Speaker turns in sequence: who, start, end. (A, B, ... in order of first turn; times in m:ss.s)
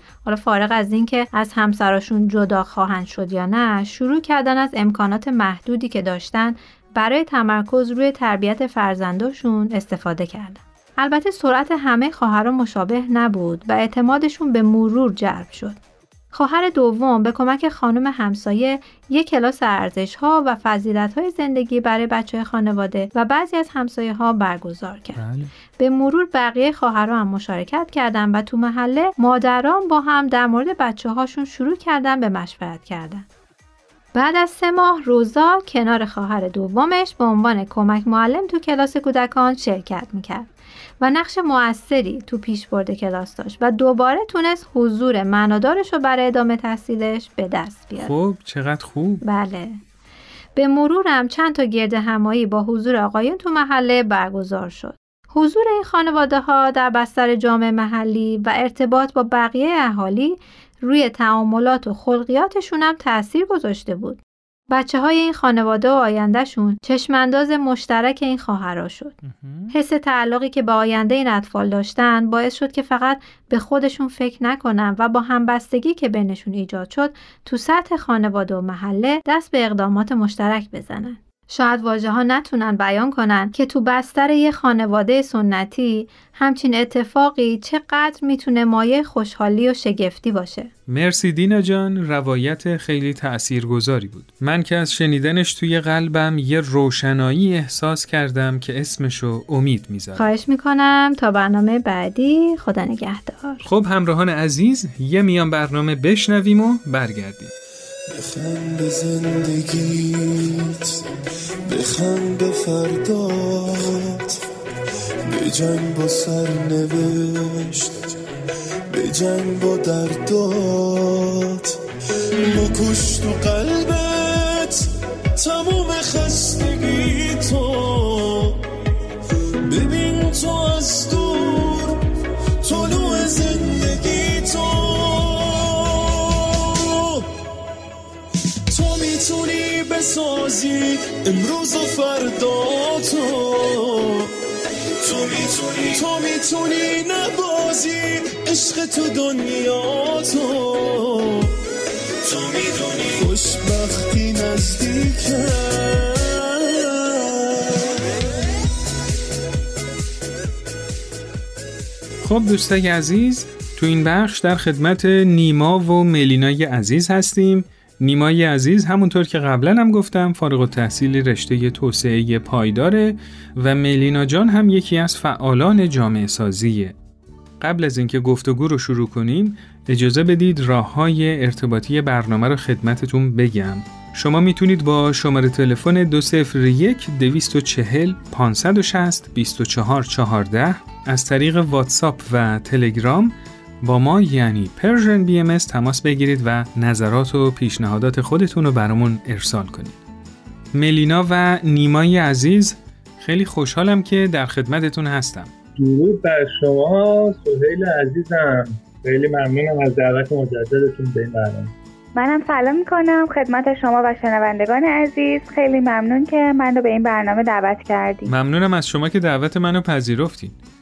0:00.2-0:15.8 A
0:16.3-0:25.2 A
0:25.2-0:25.5 B
0:25.8-0:33.2 A
0:34.1-0:40.5 A
0:41.0-0:48.1 A
0:48.0-0:49.2 B
0:49.2-0:49.8 A
0:50.6-1:09.2 A
1:09.2-1:09.7 B
1:09.7-1:30.7 A
1:30.9-1:40.3 B
1:40.2-1:43.7 A
1:43.6-1:47.5 B
1:48.1-1:51.0 C
1:51.6-1:54.4 C
1:55.3-1:58.1 C
1:58.9-2:01.8 C
2:02.4-2:08.6 C
2:09.6-2:12.0 C
2:12.6-2:17.3 C
2:18.7-2:24.3 C
2:25.0-2:31.5 C
2:32.2-2:37.8 C
2:42.2-2:56.9 B
2:57.6-3:20.0 B
3:20.7-3:25.5 B
3:25.8-3:31.7 D
3:32.1-3:38.3 E
3:38.2-3:40.6 B